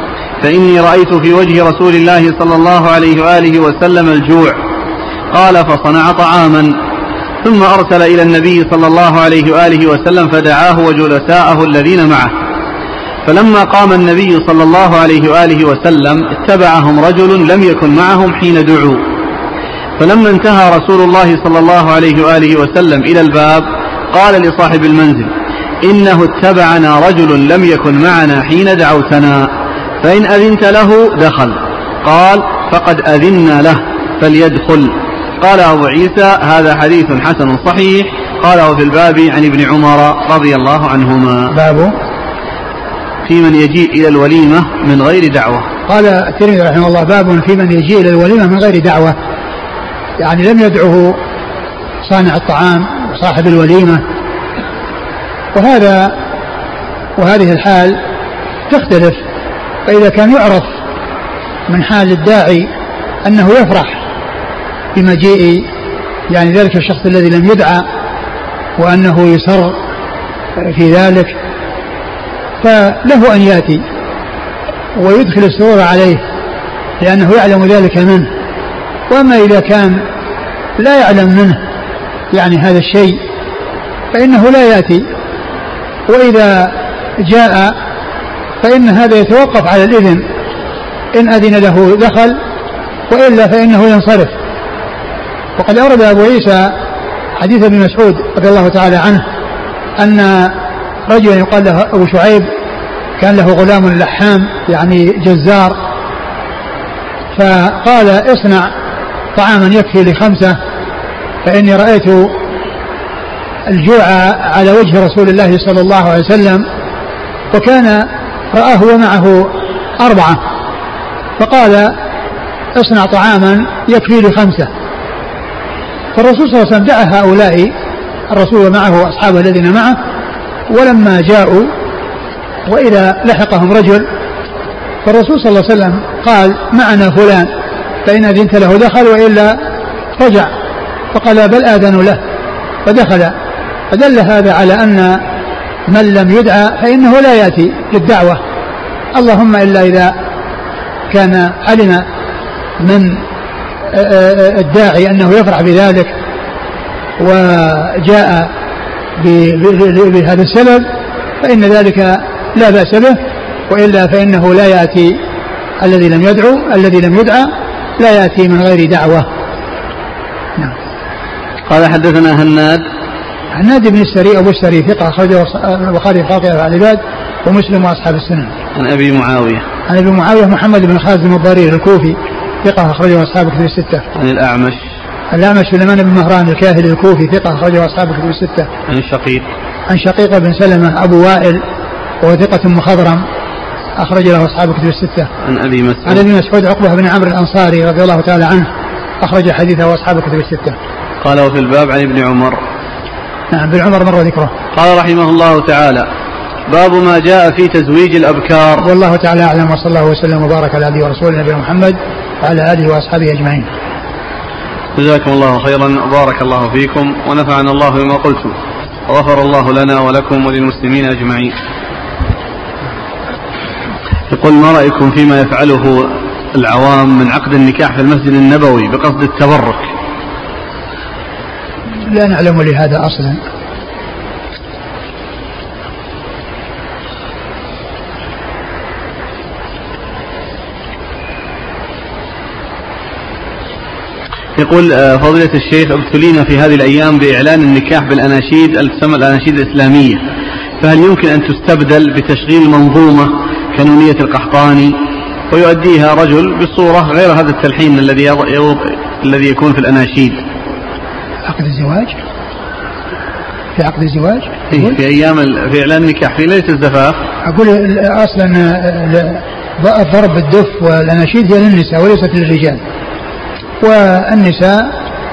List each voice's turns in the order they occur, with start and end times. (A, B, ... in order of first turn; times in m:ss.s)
0:00.4-0:04.6 A
0:05.3-0:06.8 A
0:07.4-0:12.3 A
0:13.2-0:19.0 A
0:20.0-0:25.3 A
0:25.8-0:41.6 A
0:41.5-0:41.9 B
0:43.2-0:45.7 A
0:45.9-0:49.1 B
0:50.2-0:51.2 B
0:52.0-0:54.0 B
0:55.5-0:56.1 B
0:57.2-0:58.0 B
0:58.7-0:59.2 B
0:59.9-1:00.8 B
1:01.7-1:02.7 B
1:03.2-1:04.0 B
1:04.9-1:05.6 B
1:06.3-1:07.8 B
1:08.8-1:09.8 B
1:10.6-1:11.4 B
1:12.6-1:13.8 B
1:15.0-1:16.2 B
1:17.0-1:18.3 B
1:19.1-1:20.0 B
1:20.8-1:21.6 B
1:22.3-1:23.2 B
1:24.1-1:25.0 B
1:26.1-1:27.7 B
1:28.6-1:30.2 B
1:31.1-1:32.4 B
1:33.1-1:34.3 B
1:35.6-1:36.7 B
1:37.4-1:39.2 B
1:40.0-1:40.5 B
1:41.1-1:42.5 B
1:43.2-1:45.8 B
1:47.3-1:48.7 B
1:49.3-1:50.6 B
1:51.4-1:52.3 B
1:53.7-1:56.6 B
1:57.5-2:00.4 B
2:01.4-2:01.9 B
2:02.8-2:04.7 B
2:06.1-2:07.7 B
2:08.3-2:10.0 B
2:10.7-2:11.7 B
2:12.6-2:14.0 B
2:15.0-2:17.5 B
2:18.0-2:19.6 B
2:20.2-2:20.5 B
2:21.1-2:22.2 B
2:22.8-2:23.3 B
2:23.9-2:25.2 B
2:25.9-2:28.4 B
2:29.1-2:30.1 B
2:31.1-2:32.0 B
2:32.8-2:33.2 B
2:33.9-2:36.1 B
2:37.2-2:38.5 B
2:39.2-2:40.9 B
2:41.4-2:43.2 B
2:43.7-2:45.2 B
2:45.8-2:49.3 B
2:51.7-2:52.8 A
2:53.5-2:58.5 B
2:58.7-2:59.6 A
2:59.9-3:04.0 B
3:04.1-3:04.8 A
3:05.3-3:08.7 B
3:08.9-3:09.4 A
3:09.9-3:11.6 B
3:12.2-3:13.2 B
3:14.0-3:15.3 B
3:15.4-3:16.2 A
3:16.0-3:18.7 B
3:19.2-3:20.8 B
3:21.2-3:22.6 A
3:23.5-3:24.5 B
3:24.7-3:26.1 A
3:26.7-3:28.9 A
3:28.8-3:33.7 B
3:35.0-3:38.6 A
3:39.1-3:41.5 A
3:44.3-3:49.9 A
3:52.1-3:53.4 B
4:04.6-4:10.2 A
4:10.8-4:15.0 A
4:15.5-4:20.4 A
4:21.4-4:22.1 B
4:23.7-4:24.9 B
4:24.7-4:27.2 A
4:27.4-4:32.8 B
4:33.8-4:34.9 B